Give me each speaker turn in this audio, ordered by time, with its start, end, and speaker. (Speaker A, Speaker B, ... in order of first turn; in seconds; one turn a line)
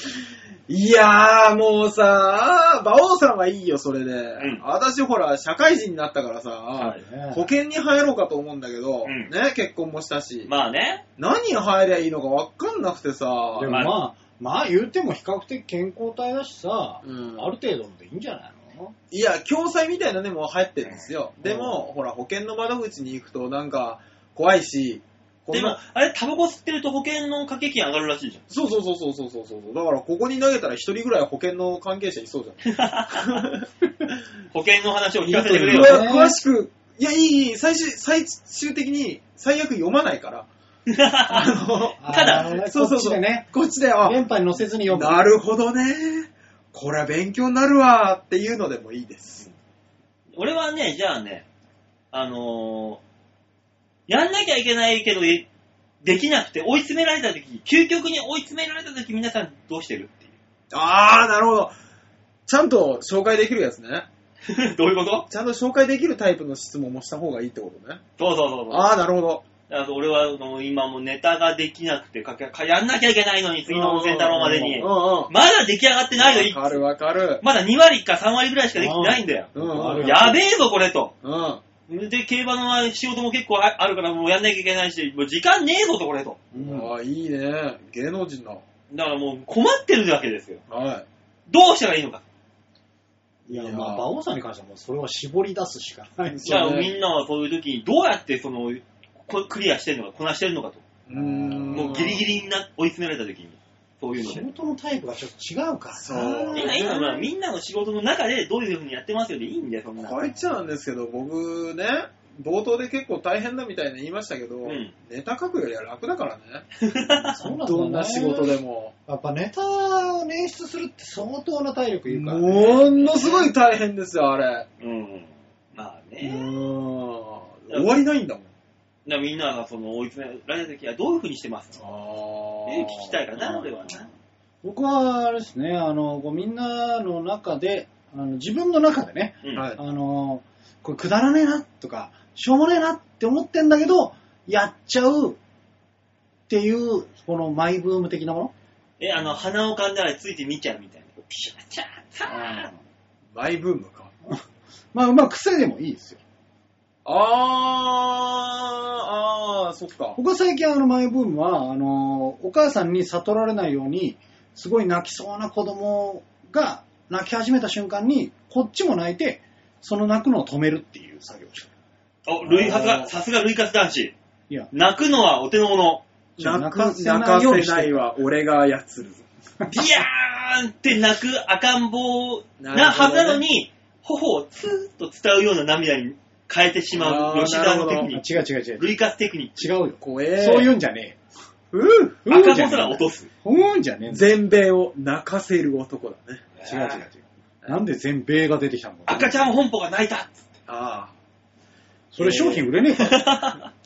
Speaker A: 0.7-10.5
Speaker B: 6.8-7.5
Speaker C: 9.0-9.3
Speaker C: 10.5-11.0
Speaker A: 11.2-13.8
Speaker B: 13.6-18.9
Speaker C: 13.7-14.0
Speaker A: 17.0-17.5
Speaker A: 19.1-25.8
Speaker B: 21.4-21.9
Speaker C: 25.5-28.4
Speaker A: 28.5-34.1
Speaker C: 32.6-33.4
Speaker C: 34.5-36.0
Speaker A: 35.2-40.5
Speaker B: 35.7-36.4
Speaker C: 40.9-41.6
Speaker A: 41.3-44.3
Speaker B: 42.0-43.5
Speaker C: 42.1-42.5
Speaker B: 44.0-45.2
Speaker A: 44.9-49.5
Speaker C: 50.4-51.5
Speaker C: 52.1-53.0
Speaker C: 54.1-55.5
Speaker C: 56.0-60.3
Speaker A: 60.7-61.7
Speaker A: 62.5-64.1
Speaker C: 64.5-65.3
Speaker A: 65.3-68.0
Speaker C: 68.2-68.9
Speaker A: 68.7-69.4
Speaker C: 69.7-76.8
Speaker A: 73.7-75.3
Speaker A: 76.2-77.4
Speaker C: 77.4-81.1
Speaker B: 78.8-80.4
Speaker A: 79.5-80.3
Speaker A: 81.2-81.6
Speaker C: 81.9-86.4
Speaker B: 86.5-86.9
Speaker A: 86.5-88.6
Speaker C: 88.9-90.6
Speaker A: 90.7-91.1
Speaker C: 91.5-92.2
Speaker A: 93.5-94.1
Speaker B: 93.5-96.7
Speaker A: 96.3-96.9
Speaker C: 96.5-100.8
Speaker A: 101.1-102.2
Speaker B: 101.1-102.2
Speaker C: 101.7-104.5
Speaker B: 104.2-106.8
Speaker A: 106.0-107.3
Speaker C: 106.5-110.3
Speaker A: 110.0-116.7
Speaker C: 114.7-114.9
Speaker C: 116.8-117.4
Speaker A: 117.3-118.9
Speaker B: 117.3-122.9
Speaker A: 122.1-124.7
Speaker C: 122.5-123.5
Speaker C: 124.8-126.5
Speaker A: 126.2-128.5
Speaker C: 129.1-131.8
Speaker A: 131.8-133.2
Speaker C: 132.7-134.1
Speaker B: 133.4-134.1
Speaker B: 134.6-145.4
Speaker B: 146.5-148.5
Speaker C: 149.0-152.7
Speaker B: 152.3-152.7
Speaker A: 153.3-154.1
Speaker B: 154.9-156.2
Speaker A: 157.1-160.2
Speaker B: 160.2-171.7
Speaker C: 172.3-174.1
Speaker A: 172.5-173.2
Speaker C: 174.7-176.0
Speaker A: 176.4-179.2
Speaker B: 176.4-178.1
Speaker C: 179.7-189.7
Speaker A: 182.6-183.4
Speaker A: 186.9-188.1
Speaker B: 188.1-189.0
Speaker B: 189.6-191.2
Speaker A: 190.0-190.7
Speaker A: 191.7-192.2
Speaker B: 192.2-194.3
Speaker C: 192.3-193.3
Speaker A: 194.1-196.5
Speaker C: 196.6-197.0
Speaker B: 196.6-199.5
Speaker C: 199.1-200.4
Speaker A: 200.7-201.1
Speaker B: 202.1-203.3
Speaker A: 202.2-202.7
Speaker C: 203.0-203.7